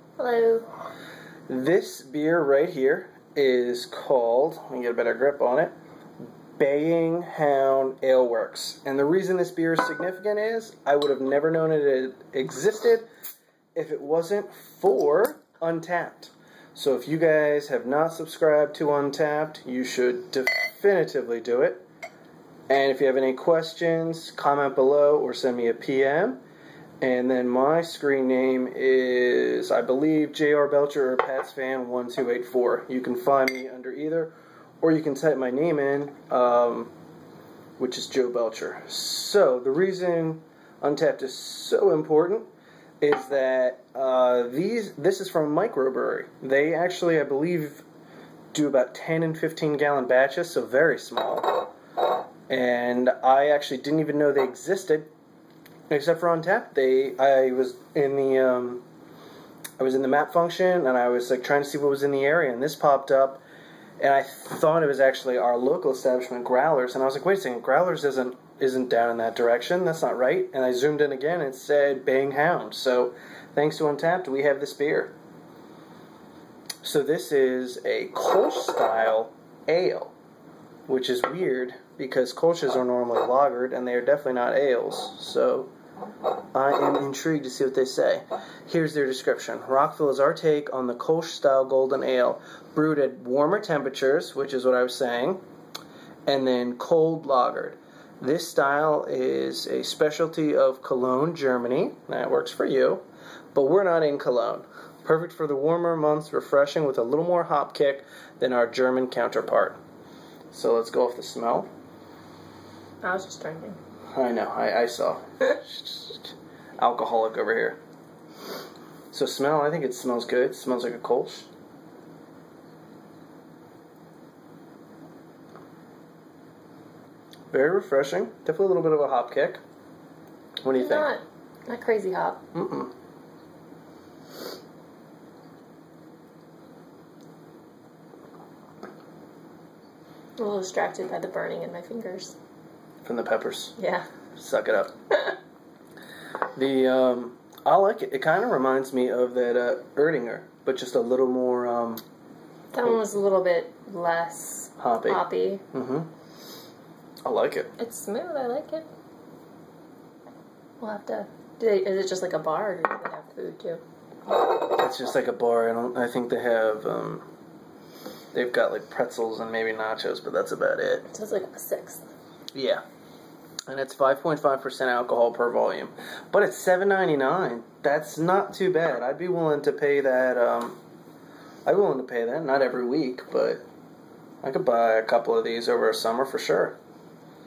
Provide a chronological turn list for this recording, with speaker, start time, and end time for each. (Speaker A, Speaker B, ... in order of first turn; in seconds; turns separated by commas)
Speaker A: 0.2-0.7, Speaker B: 1.5-5.7, Speaker B: 6.6-13.1, Speaker B: 13.7-21.8, Speaker B: 22.7-26.4, Speaker B: 27.0-36.9, Speaker B: 37.8-42.5, Speaker B: 43.0-47.8, Speaker B: 48.5-51.6, Speaker B: 52.5-55.1, Speaker B: 55.9-58.8, Speaker B: 59.8-63.4, Speaker B: 64.0-75.1, Speaker B: 76.8-80.1, Speaker B: 80.9-85.7, Speaker B: 86.5-95.4, Speaker B: 96.3-109.8, Speaker B: 110.5-111.7, Speaker A: 113.0-113.8, Speaker B: 114.1-117.8, Speaker B: 119.1-121.5, Speaker B: 127.5-129.6, Speaker B: 130.6-131.1, Speaker A: 130.7-132.4, Speaker B: 132.5-132.9, Speaker A: 140.4-142.3, Speaker B: 143.0-143.8, Speaker A: 143.8-144.0, Speaker B: 144.4-145.0, Speaker B: 146.5-152.0, Speaker A: 152.7-155.6, Speaker B: 154.8-155.2, Speaker B: 155.7-156.1, Speaker B: 157.2-157.7, Speaker A: 157.8-158.8, Speaker A: 160.8-163.8, Speaker B: 164.7-167.2, Speaker B: 168.3-171.1, Speaker A: 171.1-172.0, Speaker B: 172.5-172.8, Speaker B: 173.7-180.8, Speaker B: 181.7-183.6, Speaker B: 184.4-186.7